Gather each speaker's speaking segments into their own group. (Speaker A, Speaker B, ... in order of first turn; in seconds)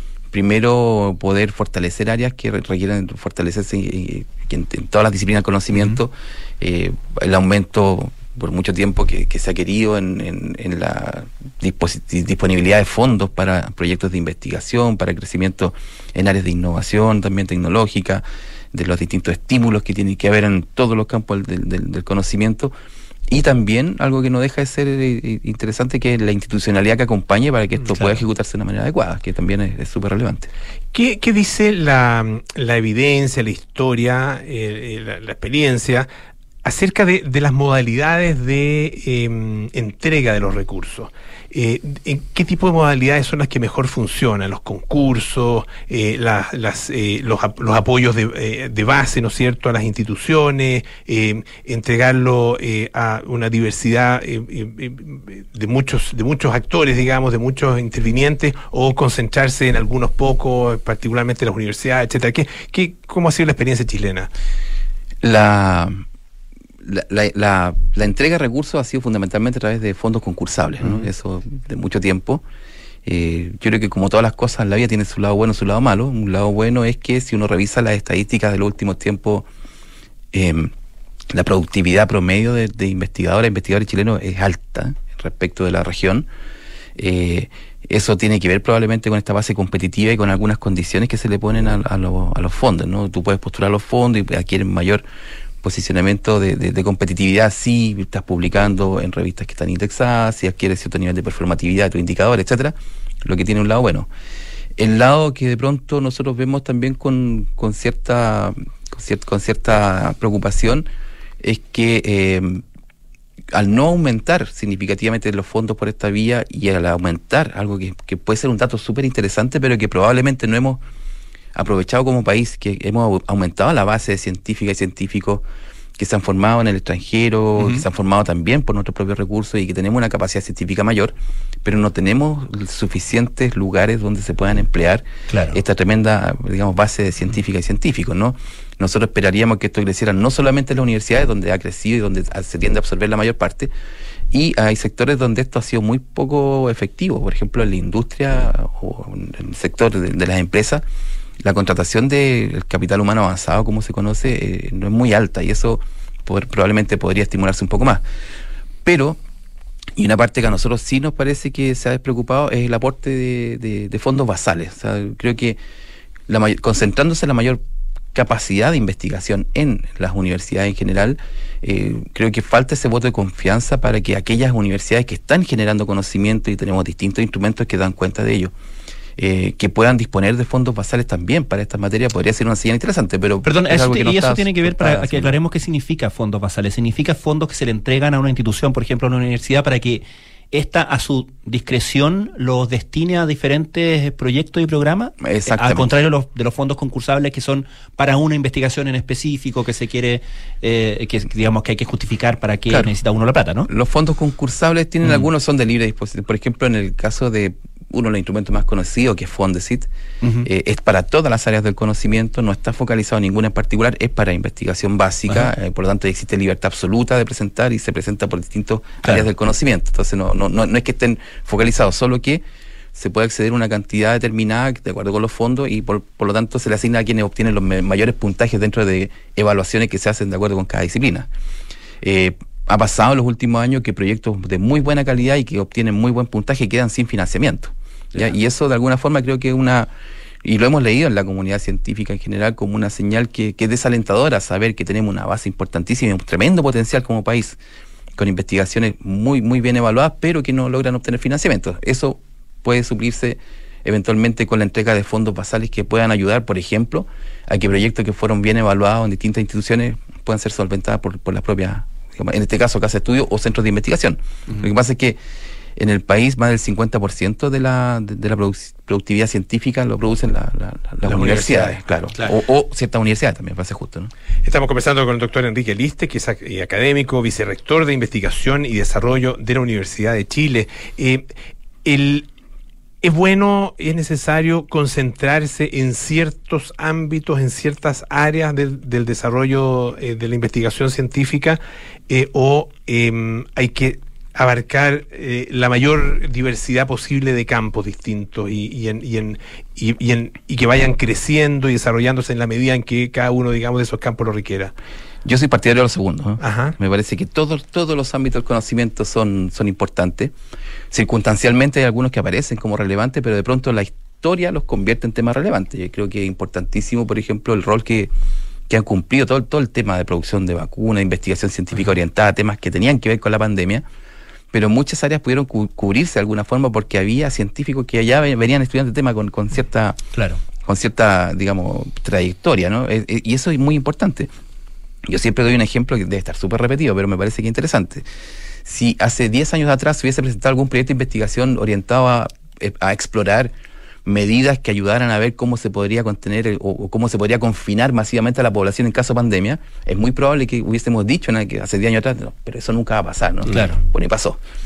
Speaker A: 0.3-22.7, 23.3-30.5, 65.2-66.0, 66.8-72.4, 73.0-79.5, 80.3-80.7, 81.3-86.3, 87.0-95.0, 95.6-104.1, 104.8-110.9, 111.4-112.6, 113.5-120.8, 121.5-125.4, 126.0-131.1, 131.6-143.7, 144.3-150.8, 151.4-158.0, 158.8-159.2, 159.9-165.6, 166.3-167.6, 168.1-178.5, 179.2-185.4, 195.2-195.9, 203.7-209.9, 210.4-222.4, 222.9-231.3, 232.0-239.9, 240.4-247.6, 248.2-265.2, 265.8-274.1, 305.2-310.3, 310.9-318.1, 318.7-323.8, 324.5-330.0, 330.6-334.3, 335.1-338.1, 338.6-343.5, 344.1-354.4
Speaker B: 27.8-28.2, 127.6-127.8, 135.3-135.6, 183.4-203.7, 210.2-210.5, 330.1-330.4, 353.4-353.8
Speaker C: 30.9-36.1, 36.6-64.3, 274.4-281.3, 281.8-282.2, 283.0-304.7, 306.4-306.7